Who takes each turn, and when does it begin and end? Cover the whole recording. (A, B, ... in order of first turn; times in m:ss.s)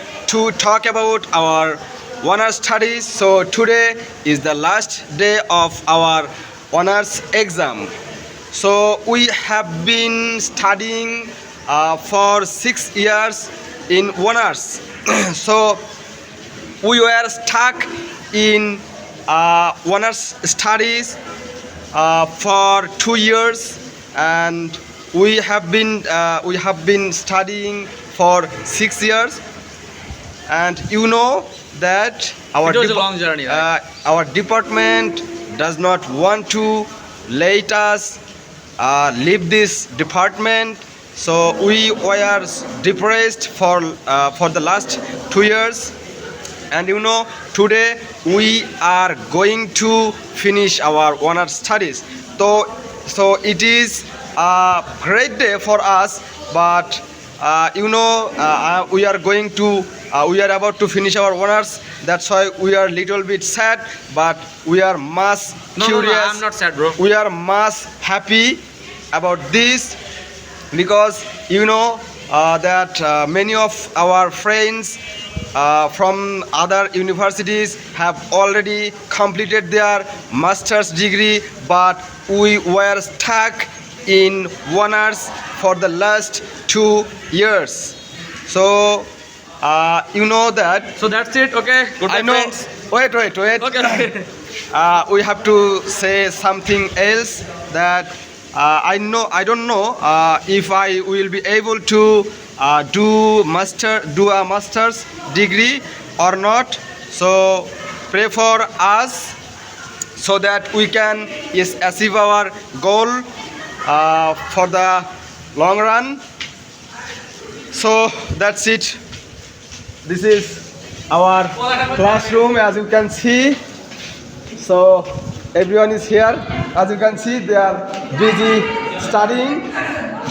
0:00.3-0:07.9 A
0:08.5-0:15.8 A
0:16.8-0:21.2 A
0:21.9-0:29.4 A
0:30.5-0:38.2 A
0:32.6-0:33.6 B
0:38.8-0:45.9 A
0:46.7-1:06.4 A
1:05.8-1:07.0 B
1:07.0-1:08.6 A
1:09.1-1:10.0 A
1:10.7-1:15.0 A
1:15.5-1:28.0 A
1:28.5-1:29.1 A
1:29.6-1:31.0 A
1:31.0-1:32.6 B
1:32.0-1:34.1 A
1:33.6-1:34.3 B
1:34.7-1:49.3 A
1:50.2-1:53.3 A
1:53.8-1:56.2 A
1:57.7-1:59.0 A
2:00.0-2:03.6 A
2:04.6-2:09.7 A